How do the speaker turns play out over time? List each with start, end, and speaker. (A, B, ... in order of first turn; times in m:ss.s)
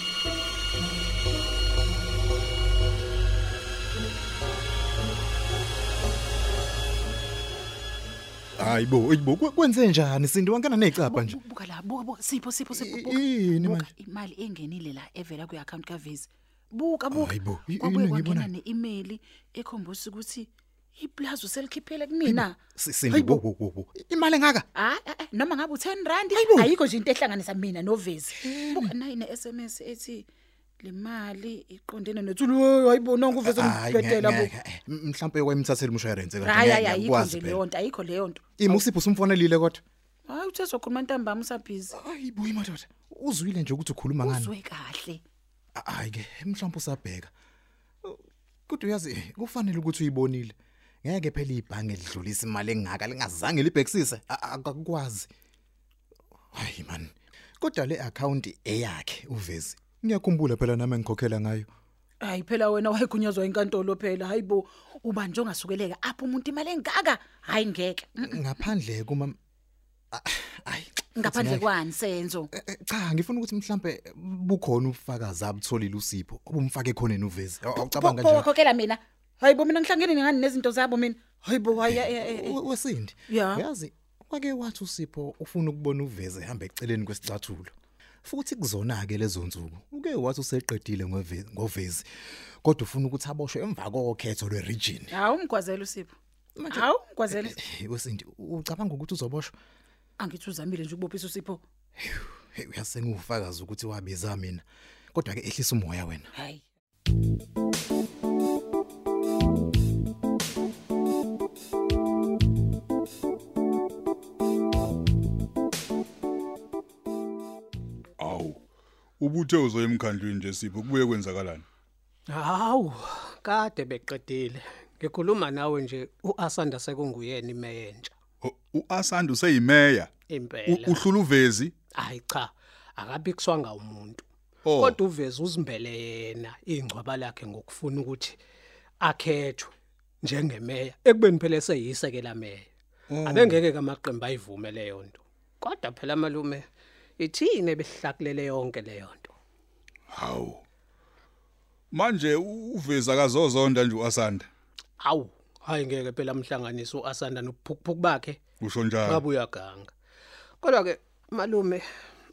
0:08.6-0:11.4 A
0:11.0-0:22.6 B
0:12.7-0:13.9 A
0:17.1-0:18.5 A
0:22.2-0:24.7 A
0:23.1-0:23.4 B
0:24.8-0:30.3 B
0:26.3-0:26.7 A
0:28.3-0:29.0 A
0:30.8-0:34.5 B
0:33.4-0:37.6 A
0:36.4-0:38.8 B
0:38.6-0:39.8 A
0:40.3-0:42.0 B
0:41.9-0:44.5 A
0:44.2-0:45.2 B
0:45.8-0:47.3 A
0:48.0-0:55.3 A
0:56.5-1:01.7 A
1:02.2-1:08.4 B
1:08.2-1:09.4 A
1:10.1-1:11.7 A
1:11.2-1:12.5 B
1:12.5-1:18.5 A
1:17.8-1:22.6 B
1:21.7-1:27.7 A
1:23.3-1:23.6 B
1:28.2-1:32.0 A
1:32.6-1:35.2 A
1:35.1-1:36.1 B
1:36.6-1:39.5 A
1:36.7-1:37.6 B
1:40.2-1:41.6 B
1:42.0-1:46.3 A
1:46.3-1:46.6 B
1:58.2-1:58.6 C
1:59.2-2:01.6 C
2:02.3-2:08.2 D
2:08.4-2:10.1 C
2:10.3-2:11.1 D
2:10.6-2:11.7 C
2:11.9-2:18.4 D
2:14.6-2:15.0 C
2:19.0-2:22.7 D
2:23.1-2:23.6 C
2:23.2-2:26.6 D
2:27.2-2:29.3 D
2:30.1-2:30.6 C
2:31.9-2:34.5 C
2:35.0-2:38.4 D
2:38.6-2:39.2 C
2:39.0-2:39.9 D
2:40.6-2:41.8 D